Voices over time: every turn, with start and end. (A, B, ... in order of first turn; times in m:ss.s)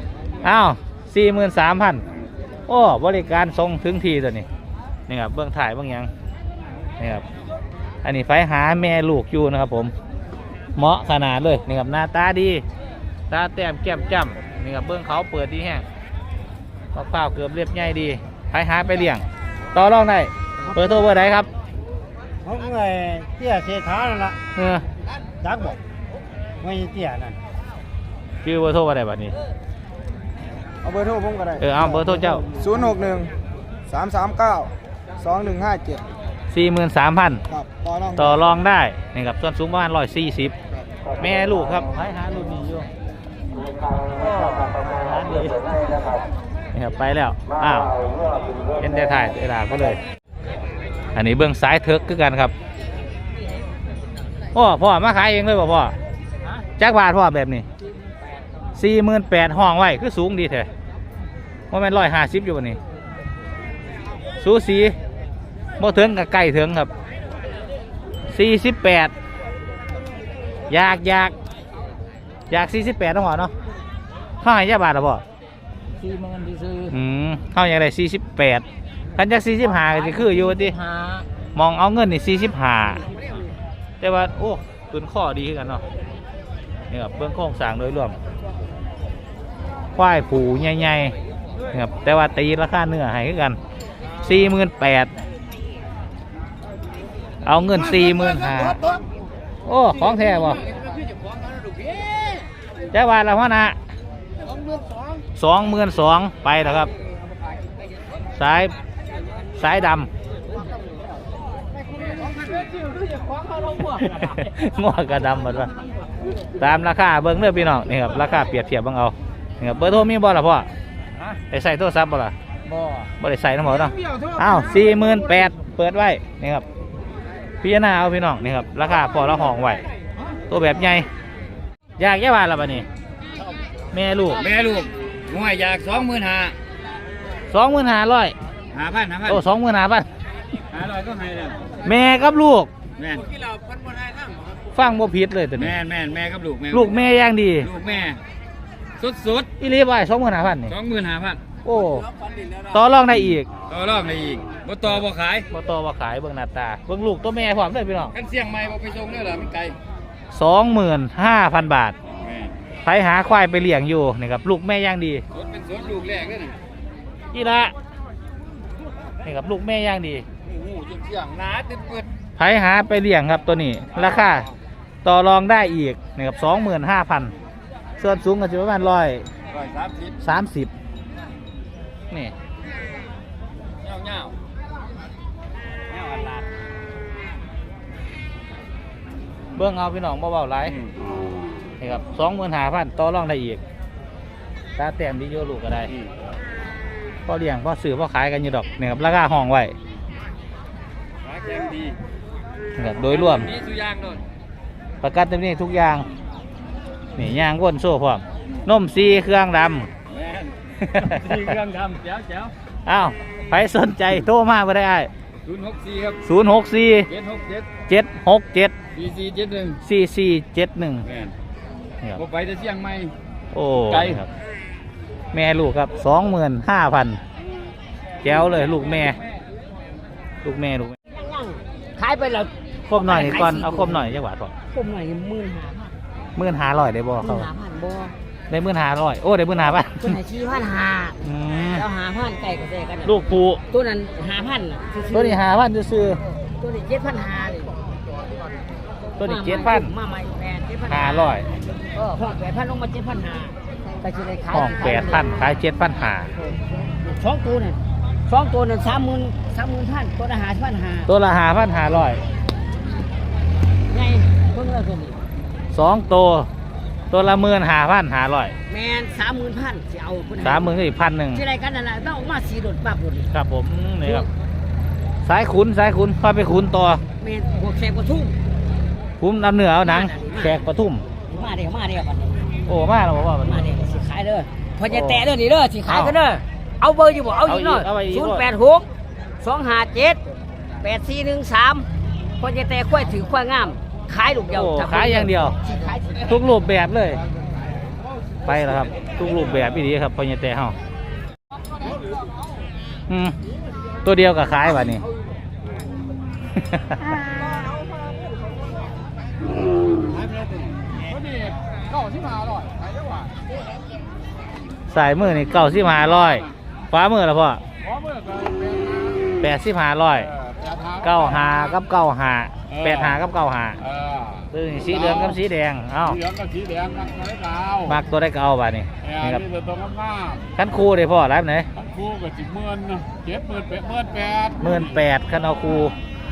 0:00.4-0:02.0 A
0:02.7-0:04.4 A
0:05.1-0:06.1 A
0:07.0-0:07.2 A
0:08.0-0:09.9 A
0:10.8-0:12.6 A
0:13.3-0:15.8 A
0:16.9-0:19.2 A
0:19.7-0:21.5 A
0:22.4-0:24.4 B
0:24.6-0:24.8 A
0:25.4-0:25.8 B
0:26.6-0:27.4 B
0:28.4-0:29.3 A
0:30.8-0:33.3 C
0:31.6-0:32.4 A
0:33.9-0:36.0 C
0:36.5-0:37.4 A
0:37.5-0:38.4 C
0:38.1-0:40.5 A
0:41.2-0:42.9 A
0:44.1-0:45.6 A
0:46.7-0:47.9 A
0:48.8-0:50.0 A
0:51.1-0:52.5 A
0:54.5-0:55.9 A
0:56.8-0:57.6 A
0:58.7-1:00.7 A
1:01.7-1:02.8 A
1:04.4-1:05.0 A
1:05.8-1:06.9 A
1:08.3-1:09.1 A
1:10.7-1:11.3 A
1:12.5-1:13.5 A
1:14.4-1:15.2 A
1:16.2-1:16.8 D
1:16.9-1:18.6 A
1:19.2-1:20.7 A
1:20.5-1:21.2 D
1:21.5-1:23.0 A
1:24.0-1:25.8 A
1:26.9-1:28.2 A
1:30.0-1:31.1 A
1:31.7-1:33.6 A
1:34.2-1:35.1 A
1:37.4-1:38.8 A
1:39.6-1:40.6 A
1:40.7-1:42.4 E
1:42.9-1:43.8 A
1:45.4-1:46.9 A
1:48.3-1:48.7 A
1:49.6-1:50.1 A
1:54.0-1:55.7 A
1:56.6-2:00.7 A
2:01.5-2:02.3 A
2:03.2-2:06.6 A
2:07.6-2:09.8 A
2:10.5-2:11.1 A
2:12.0-2:12.8 A
2:13.9-2:14.4 A
2:14.4-2:16.5 E
2:17.5-2:18.3 A
2:18.7-2:19.4 E
2:19.2-2:20.1 A
2:20.7-2:21.8 E
2:21.8-2:22.7 A
2:23.0-2:24.5 E
2:24.7-2:25.8 A
2:25.6-2:27.0 E
2:26.7-2:27.7 A
2:27.6-2:28.2 E
2:29.0-2:29.5 E
2:29.6-2:30.7 A
2:30.7-2:31.4 E
2:31.6-2:32.1 A
2:32.0-2:32.8 E
2:32.7-2:33.5 A
2:33.7-2:35.5 E
2:35.5-2:38.1 A
2:38.1-2:39.8 E
2:40.3-2:42.0 A
2:42.2-2:42.5 E
2:42.8-2:45.2 A
2:45.3-2:46.6 E
2:47.3-2:47.7 A
2:49.2-2:50.2 A
2:50.4-2:52.1 E
2:52.4-2:54.5 A
2:53.9-2:54.6 E
2:55.0-2:57.3 A
2:58.0-2:59.2 A
2:59.5-3:00.2 E
3:00.2-3:00.7 A
3:03.8-3:04.3 E
3:05.9-3:06.5 E
3:09.6-3:10.7 A
3:10.7-3:11.0 E
3:11.8-3:13.6 A
3:14.8-3:15.9 A
3:15.9-3:16.1 E
3:17.2-3:19.7 A
3:21.2-3:22.0 E
3:22.8-3:23.5 A
3:23.0-3:24.2 E
3:25.0-3:26.0 A
3:27.2-3:29.9 A
3:30.1-3:32.5 E
3:30.8-3:31.5 A
3:32.8-3:35.1 A
3:35.4-3:36.2 E
3:36.2-3:37.1 A
3:37.1-3:37.7 E
3:37.9-3:38.7 A
3:38.9-3:39.8 E
3:39.8-3:41.1 A
3:41.0-3:41.3 E
3:42.2-3:43.1 E
3:43.5-3:44.3 A
3:43.9-3:44.2 E
3:45.3-3:47.2 A
3:48.2-3:49.2 A
3:50.4-3:51.0 A
3:51.1-3:52.5 D
3:52.9-3:54.5 A
3:53.0-3:54.1 D
3:54.7-3:55.9 D
3:56.4-3:57.5 A
3:57.2-3:58.1 D
3:58.5-4:00.1 A
4:00.0-4:03.2 D
4:01.2-4:01.8 A
4:03.0-4:03.6 A
4:03.7-4:05.4 D
4:05.1-4:06.2 A
4:06.6-4:07.8 D
4:09.2-4:09.9 A
4:09.2-4:11.4 D
4:10.9-4:11.5 A
4:11.9-4:15.4 D
4:14.5-4:16.3 A
4:16.4-4:21.1 D
4:21.1-4:22.2 A
4:23.9-4:25.2 D
4:25.7-4:26.5 A
4:27.1-4:28.5 A
4:28.7-4:30.8 D
4:30.4-4:31.4 A
4:31.3-4:33.3 D
4:33.3-4:34.2 A
4:35.2-4:37.0 A
4:37.2-4:38.3 D
4:39.2-4:41.0 A
4:39.8-4:40.6 D
4:41.3-4:42.5 D
4:42.6-4:43.6 A
4:43.4-4:48.9 D
4:44.9-4:45.2 A
4:45.8-4:46.2 A
4:47.4-4:48.4 A
4:49.4-4:50.2 D
4:50.8-4:51.8 D
4:52.4-4:56.4 D
4:54.5-4:55.6 A
4:56.2-4:57.2 A
4:58.4-5:00.8 A
5:03.1-5:03.3 A
5:04.0-5:05.0 A
5:06.6-5:07.0 A
5:10.3-5:13.3 F
5:14.9-5:17.6 A
5:15.6-5:16.5 F
5:17.8-5:19.3 F
5:19.4-5:20.3 A
5:20.2-5:21.7 F
5:21.0-5:23.8 A
5:22.7-5:23.2 F
5:23.8-5:25.4 F
5:24.5-5:26.2 A
5:26.0-5:28.0 F
5:27.8-5:29.4 A
5:29.0-5:30.5 F
5:30.6-5:31.7 A
5:31.7-5:35.0 F
5:34.6-5:35.9 A